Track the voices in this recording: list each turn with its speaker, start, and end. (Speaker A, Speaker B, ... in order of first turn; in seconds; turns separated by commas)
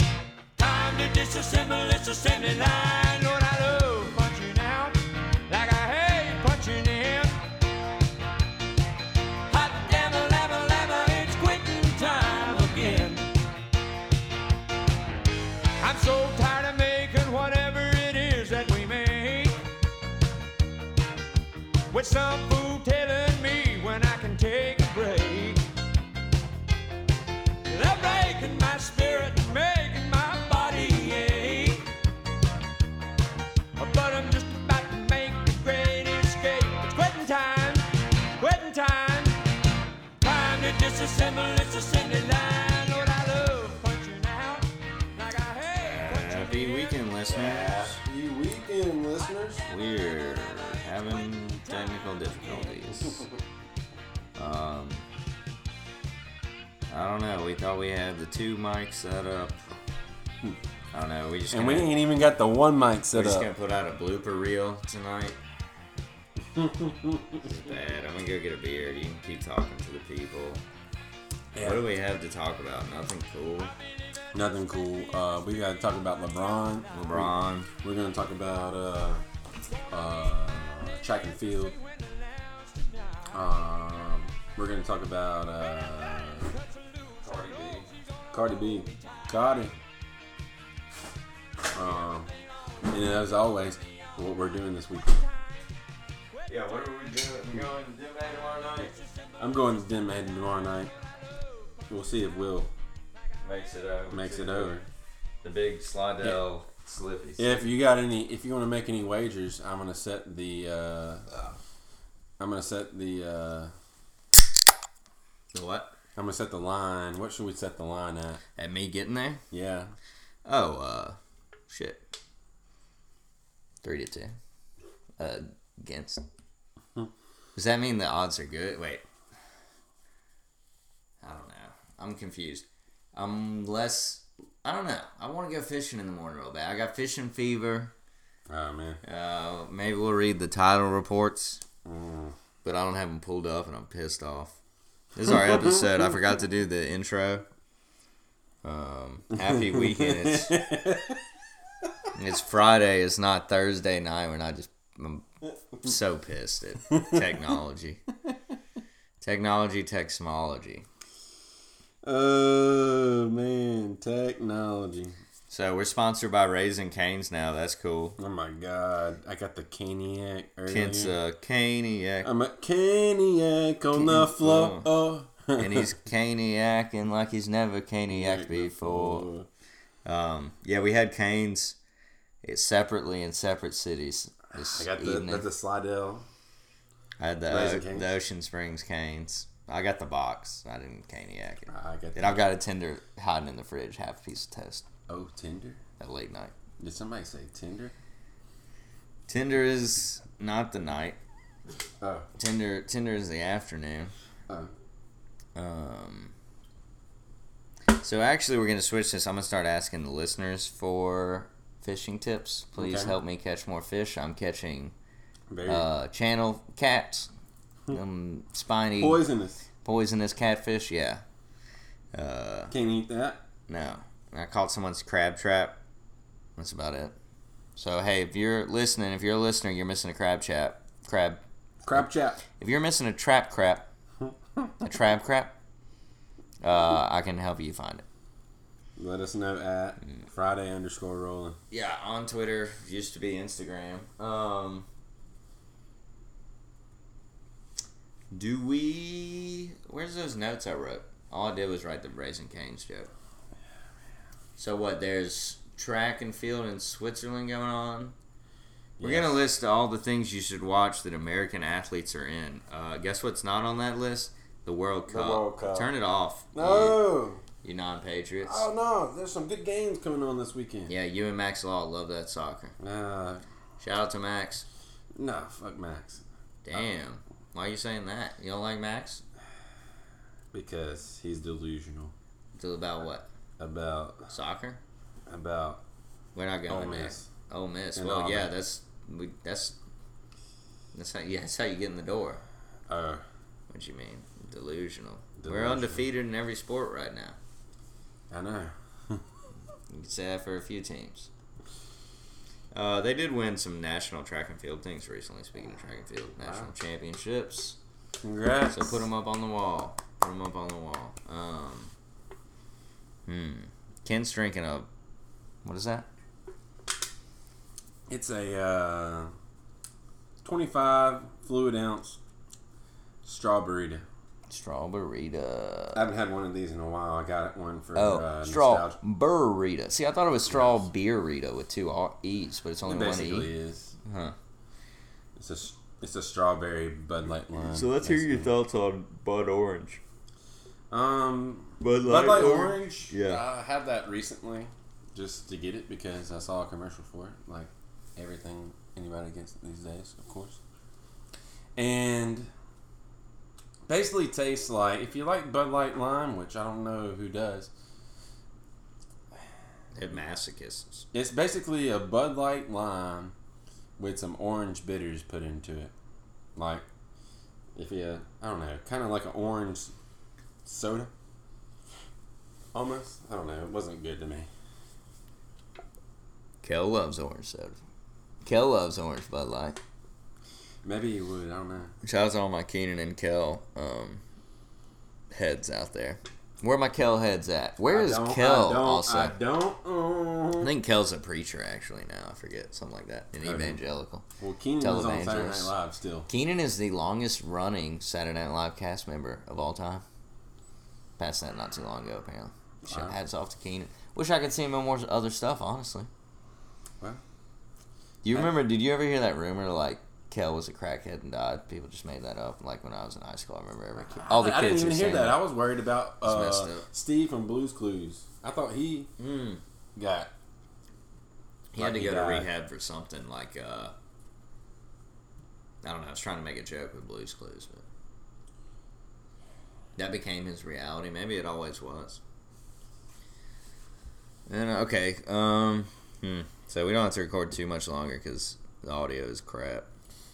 Speaker A: 0.6-7.4, Speaker A: 9.5-13.3, Speaker A: 15.8-19.6, Speaker A: 21.9-25.7, Speaker A: 27.7-31.9, Speaker A: 33.8-37.9, Speaker A: 38.4-39.4, Speaker A: 40.2-47.0, Speaker B: 45.7-48.0, Speaker C: 47.3-49.7, Speaker B: 49.6-53.3, Speaker A: 49.7-52.9, Speaker C: 53.0-53.3, Speaker B: 54.4-55.1, Speaker B: 56.9-59.6, Speaker B: 60.9-62.0, Speaker C: 61.5-63.5, Speaker B: 63.1-65.4, Speaker C: 66.5-67.5, Speaker B: 67.4-70.6, Speaker C: 71.5-71.8, Speaker B: 71.6-73.7, Speaker C: 74.3-79.2, Speaker B: 76.9-77.7, Speaker C: 79.9-81.8, Speaker A: 81.4-83.2, Speaker C: 83.3-86.5, Speaker A: 86.5-89.2, Speaker B: 87.2-87.9, Speaker C: 88.3-89.7, Speaker C: 91.7-92.3, Speaker C: 92.8-95.2, Speaker B: 96.5-98.9, Speaker C: 99.4-100.9, Speaker A: 101.2-101.6, Speaker C: 101.9-102.7, Speaker B: 103.4-104.8, Speaker C: 104.1-104.9, Speaker B: 105.4-107.7, Speaker C: 107.4-111.5, Speaker C: 112.4-113.7, Speaker B: 115.5-116.0, Speaker C: 116.2-118.4, Speaker B: 118.6-119.4, Speaker C: 119.5-119.9, Speaker B: 120.5-121.2, Speaker B: 121.7-122.0, Speaker B: 123.8-124.4, Speaker B: 125.2-126.2, Speaker B: 127.5-129.0, Speaker B: 131.2-137.9, Speaker C: 138.5-139.0, Speaker B: 139.0-141.6, Speaker C: 141.8-142.3, Speaker B: 142.6-144.6, Speaker B: 145.2-147.5, Speaker B: 148.6-150.6, Speaker C: 149.4-151.2, Speaker B: 152.2-155.3, Speaker B: 155.8-158.0, Speaker C: 156.9-157.2, Speaker B: 159.2-160.9, Speaker C: 162.0-165.2, Speaker B: 165.5-168.2, Speaker C: 168.2-171.2, Speaker B: 170.7-172.3, Speaker C: 172.2-175.9, Speaker B: 173.9-174.9, Speaker B: 175.6-179.3, Speaker C: 178.1-179.5, Speaker B: 180.1-181.8, Speaker B: 182.4-185.5, Speaker C: 184.6-186.3, Speaker B: 187.2-194.9, Speaker C: 187.5-188.1, Speaker C: 191.7-192.5, Speaker C: 195.1-195.8, Speaker B: 196.0-196.5, Speaker C: 196.8-197.9, Speaker B: 199.3-201.2, Speaker C: 202.0-202.3, Speaker B: 202.4-204.1, Speaker B: 205.6-206.3, Speaker B: 207.9-214.9, Speaker C: 212.8-213.2, Speaker C: 215.5-215.9, Speaker B: 215.7-217.3, Speaker B: 217.9-219.2, Speaker C: 219.0-219.7, Speaker B: 219.8-221.2, Speaker B: 222.1-222.7, Speaker C: 222.7-223.4, Speaker B: 223.7-225.8, Speaker B: 226.6-227.2, Speaker B: 227.8-231.4, Speaker C: 231.8-232.4, Speaker B: 231.9-233.9, Speaker C: 234.3-234.7, Speaker B: 234.8-235.6, Speaker B: 236.6-238.1, Speaker C: 239.0-241.6, Speaker B: 241.7-244.9, Speaker B: 248.3-253.1, Speaker B: 254.6-258.2, Speaker C: 259.0-259.4, Speaker B: 259.0-267.0, Speaker C: 265.1-265.9, Speaker C: 266.5-267.4, Speaker B: 267.6-268.6, Speaker C: 268.4-270.9, Speaker B: 270.9-272.8, Speaker C: 272.8-273.4, Speaker B: 273.8-274.7, Speaker C: 275.2-276.2, Speaker B: 276.6-279.2, Speaker C: 280.5-282.1, Speaker B: 282.6-283.3, Speaker C: 283.6-284.3, Speaker B: 284.3-284.8, Speaker C: 285.3-285.8, Speaker B: 286.4-289.8, Speaker C: 286.7-287.3, Speaker C: 287.9-288.5, Speaker B: 290.9-292.4, Speaker C: 292.9-293.2, Speaker B: 293.7-297.4, Speaker C: 295.4-296.1, Speaker C: 298.3-299.2, Speaker B: 299.9-301.3, Speaker B: 302.7-307.8, Speaker C: 306.4-306.7, Speaker C: 308.2-309.1, Speaker B: 308.7-311.9, Speaker B: 313.3-314.9, Speaker B: 315.6-316.1, Speaker C: 318.1-319.3, Speaker C: 320.4-322.2, Speaker C: 323.2-324.0, Speaker B: 324.5-326.1, Speaker C: 325.9-329.0, Speaker B: 327.9-333.5, Speaker C: 332.9-333.9, Speaker B: 334.0-334.4, Speaker C: 335.4-338.5, Speaker B: 337.6-340.0, Speaker C: 340.9-350.6, Speaker B: 341.8-343.4, Speaker C: 351.8-352.5, Speaker C: 353.9-357.7, Speaker B: 359.9-361.1, Speaker C: 361.1-363.3, Speaker C: 364.0-365.9, Speaker C: 366.6-366.9, Speaker C: 367.8-369.9, Speaker C: 370.6-371.1, Speaker C: 372.7-374.5, Speaker B: 376.6-377.8, Speaker B: 378.4-379.8, Speaker C: 380.8-381.9, Speaker B: 382.0-384.2, Speaker B: 385.3-389.4, Speaker C: 387.9-390.7, Speaker B: 390.6-394.2, Speaker C: 393.4-393.8, Speaker C: 394.4-396.3, Speaker B: 394.8-395.7, Speaker B: 396.3-400.0, Speaker B: 401.2-406.1, Speaker C: 402.9-403.2, Speaker B: 408.2-415.4, Speaker C: 414.1-419.1, Speaker B: 416.2-416.9, Speaker B: 419.2-419.6, Speaker C: 420.0-420.3, Speaker B: 421.7-423.9, Speaker C: 421.8-422.5, Speaker B: 425.8-427.9, Speaker B: 430.0-432.2, Speaker B: 434.5-439.9